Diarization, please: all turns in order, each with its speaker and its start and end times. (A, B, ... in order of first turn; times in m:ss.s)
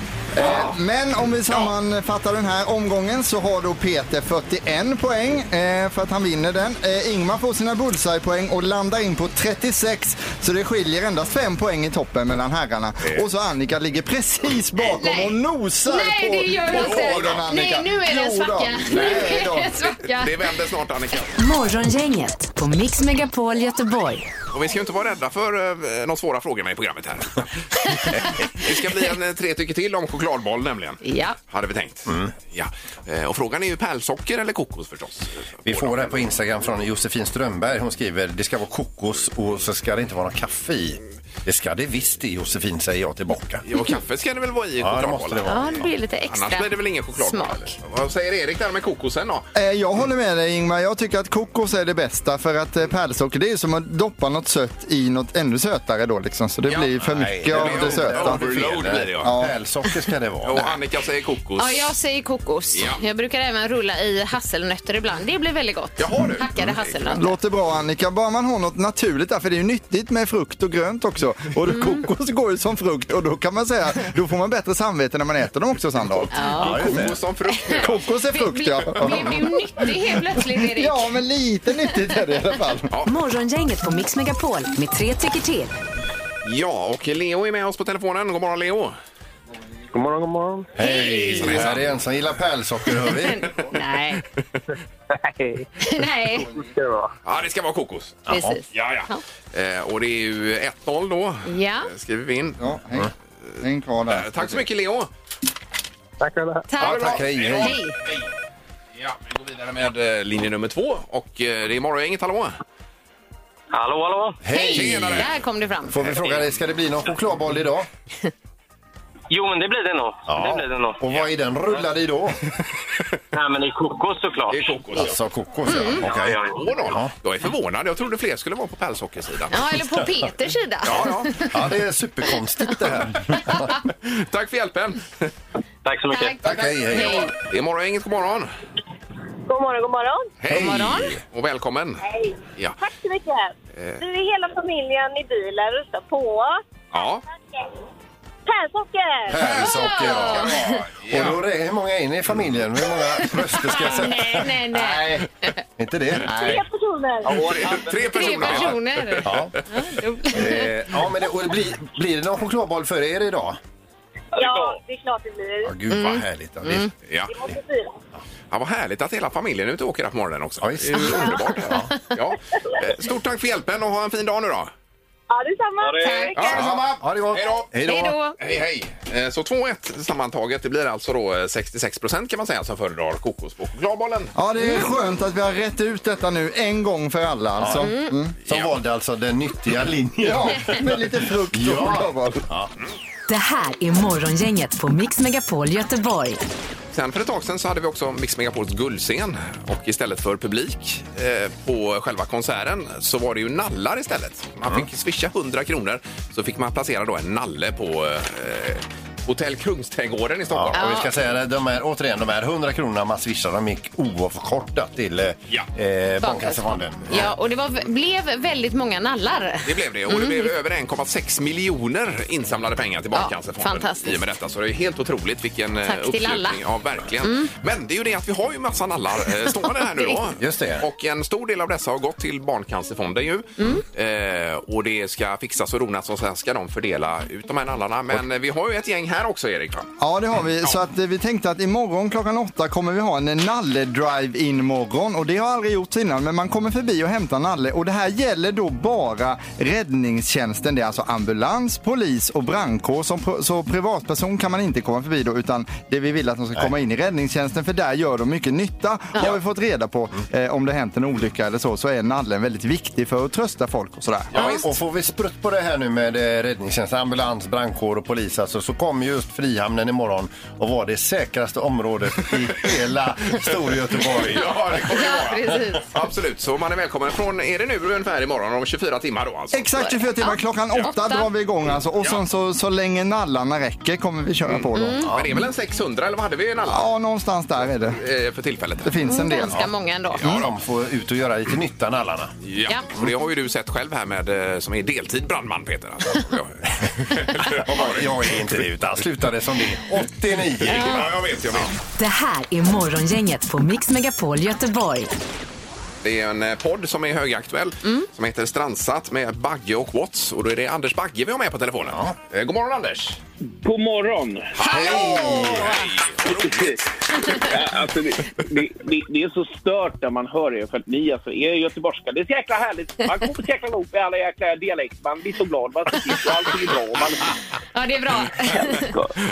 0:00.3-0:19.8 A
0:00.4-0:00.7 B
0:01.5-0:01.7 B
0:14.8-0:20.4 C
0:16.7-0:17.5 B
0:18.9-0:19.4 B
0:20.0-0:21.3 B
0:21.4-0:24.3 D
0:24.5-0:36.3 B
0:28.1-0:28.4 E
0:31.0-0:31.4 C
0:32.1-0:32.3 E
0:35.6-0:43.6 E
0:43.6-0:49.4 B
0:44.8-0:45.9 E
0:45.4-0:47.7 C
0:49.5-0:58.4 A
0:56.7-0:59.3 B
0:57.0-1:00.7 E
0:59.2-0:59.5 A
1:00.4-1:01.9 B
1:01.6-1:07.4 C
1:02.7-1:03.0 B
1:06.0-1:07.0 B
1:07.1-1:17.0 A
1:11.7-1:12.0 C
1:16.1-1:18.0 B
1:16.3-1:21.0 C
1:16.6-1:17.2 E
1:17.8-1:22.9 A
1:23.0-1:25.8 D
1:26.4-1:28.9 B
1:30.7-1:33.5 E
1:30.8-1:31.5 C
1:30.8-1:32.0 B
1:33.2-1:34.2 C
1:35.8-1:36.5 C
1:37.2-1:38.2 B
1:38.3-1:38.6 E
1:38.3-1:39.2 C
1:38.7-1:42.6 B
1:41.4-1:41.9 C
1:42.6-1:44.6 A
1:44.1-1:45.1 B
1:46.7-1:48.0 C
1:46.8-1:47.8 E
1:46.8-1:48.2 B
1:49.0-1:52.5 B
1:53.7-1:54.4 F
1:54.4-1:55.3 E
1:54.5-1:56.2 C
1:54.7-1:55.3 B
1:55.9-1:57.9 E
1:56.1-1:56.4 B
1:59.3-2:01.0 F
2:00.3-2:02.4 E
2:03.3-2:04.8 F
2:04.5-2:05.2 B
2:04.9-2:07.1 E
2:05.6-2:06.0 C
2:06.1-2:06.6 F
2:06.2-2:09.6 B
2:09.5-2:11.6 C
2:10.8-2:11.3 B
2:11.4-2:13.7 E
2:13.9-2:15.3 B
2:15.8-2:16.4 F
2:16.1-2:17.3 C
2:16.4-2:17.3 E
2:16.5-2:18.5 B
2:19.5-2:20.3 G
2:20.4-2:22.0 B
2:20.5-2:21.1 E
2:20.5-2:21.2 C
2:22.0-2:26.6 G
2:23.7-2:24.0 B
2:26.9-2:27.2 B
2:28.4-2:29.4 G
2:29.3-2:34.6 E
2:29.3-2:30.8 C
2:30.0-2:31.4 B
2:33.5-2:35.6 C
2:34.7-2:35.2 A
2:35.8-2:36.6 E
2:36.3-2:36.6 A
2:36.3-2:37.5 G
2:37.2-2:39.4 B
2:38.0-2:40.7 C
2:39.2-2:39.5 E
2:40.3-2:43.6 E
2:44.3-2:45.7 G
2:45.6-2:46.9 E
2:45.9-2:46.9 C
2:47.1-2:47.3 B
2:47.3-2:47.9 G
2:48.5-2:54.7 B
2:50.6-2:51.9 E
2:55.3-2:56.5 G
2:56.0-2:56.7 C
2:56.3-2:57.7 B
2:56.4-2:58.2 E
2:57.8-2:58.4 C
2:58.4-3:04.3 B
3:04.4-3:08.3 A
3:07.6-3:07.9 E
3:07.8-3:08.1 C
3:08.4-3:12.7 E
3:10.2-3:12.4 A
3:13.3-3:16.4 D
3:16.9-3:31.0 B
3:30.5-3:37.3 E
3:30.7-3:31.1 C
3:36.2-3:40.5 C
3:39.6-3:59.9 B
3:43.1-3:44.2 C
3:45.8-3:46.6 C
3:47.2-3:47.5 C
3:49.8-3:50.2 C
3:50.4-3:50.8 E
3:53.6-3:53.8 C
4:00.0-4:24.5 A
4:24.3-4:24.7 B
4:24.4-4:24.6 C
4:24.4-4:35.2 E
4:34.1-4:39.9 B
4:34.7-4:35.9 C
4:39.5-4:45.1 A
4:39.8-4:41.3 C
4:44.4-4:46.9 B
4:44.8-4:45.1 C
4:45.0-4:45.3 E
4:46.7-4:48.0 A
4:47.9-4:49.0 B
4:48.8-4:49.7 A
4:49.0-4:50.2 C
4:50.2-4:50.5 B
4:50.2-4:52.3 E
4:52.4-4:58.5 B
4:57.4-5:01.1 E
5:00.6-5:01.7 B
5:00.7-5:01.1 C
5:02.0-5:05.1 D
5:06.0-5:13.2 B
5:11.8-5:12.1 E
5:13.5-5:14.6 H
5:14.6-5:17.4 B
5:14.6-5:15.9 C
5:14.7-5:15.8 E
5:16.3-5:16.8 H
5:17.1-5:17.5 C
5:17.3-5:27.4 H
5:27.7-5:28.9 C
5:28.5-5:29.1 H